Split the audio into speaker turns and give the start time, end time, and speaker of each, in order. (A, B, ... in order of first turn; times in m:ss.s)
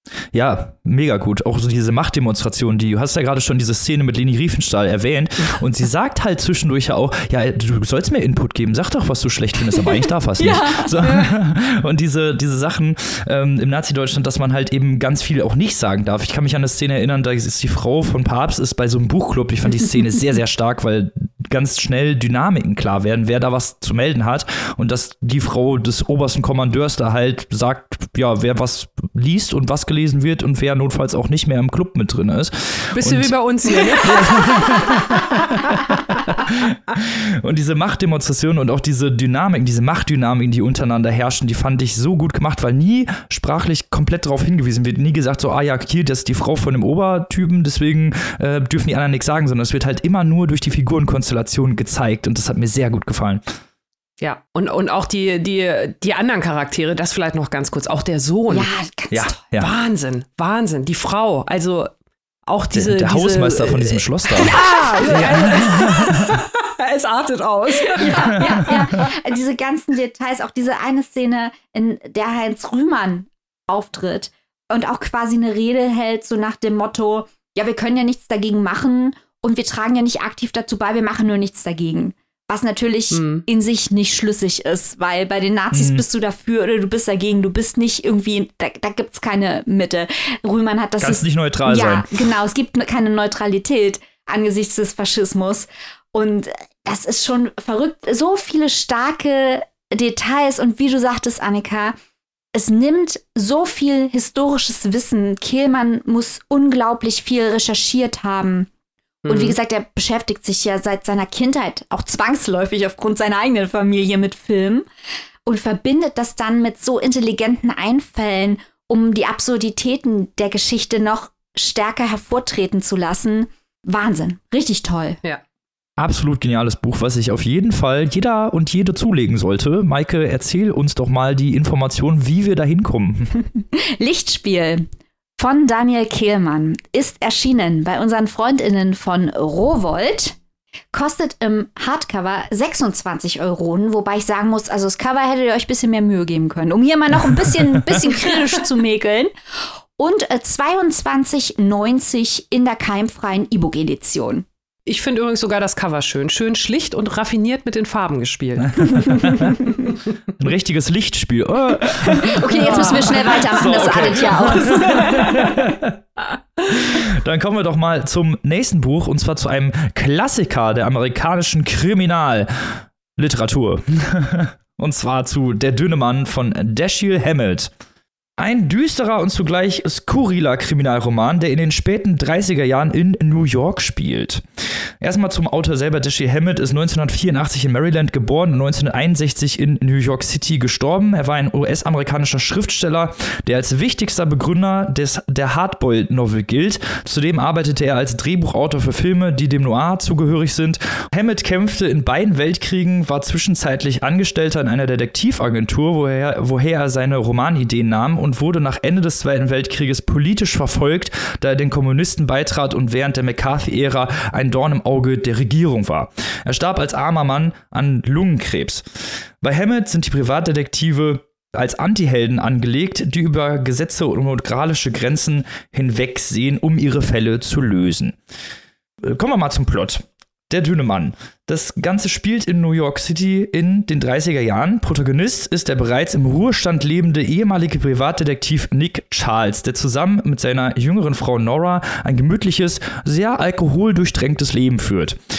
0:00.3-0:33.3 A
0:10.4-0:10.9 B
0:32.9-0:35.0 C
0:34.0-0:53.4 A
0:54.2-0:58.7 C
0:58.5-0:59.4 B
0:59.1-0:59.7 A
0:59.6-1:01.9 C
1:02.5-1:09.1 C
1:02.8-1:06.4 A
1:04.6-1:05.3 B
1:08.0-1:41.9 B
1:23.1-1:23.4 C
1:25.7-1:26.0 A
1:31.0-1:32.1 A
1:42.6-1:48.7 B
1:49.2-1:49.6 C
1:49.3-1:54.9 B
1:55.4-2:05.2 B
2:06.0-2:13.3 A
2:13.6-2:14.8 B
2:15.4-2:20.4 B
2:20.9-2:29.3 B
2:30.0-2:34.4 B
2:34.9-2:39.5 C
2:38.8-2:39.7 A
2:40.4-2:45.9 A
2:42.2-2:45.4 B
2:42.6-2:43.0 C
2:43.8-2:45.3 C
2:46.6-2:52.5 A
2:53.2-2:57.7 A
2:58.4-3:04.4 A
3:05.0-3:38.8 A
3:39.4-3:48.2 A
3:49.0-4:05.2 A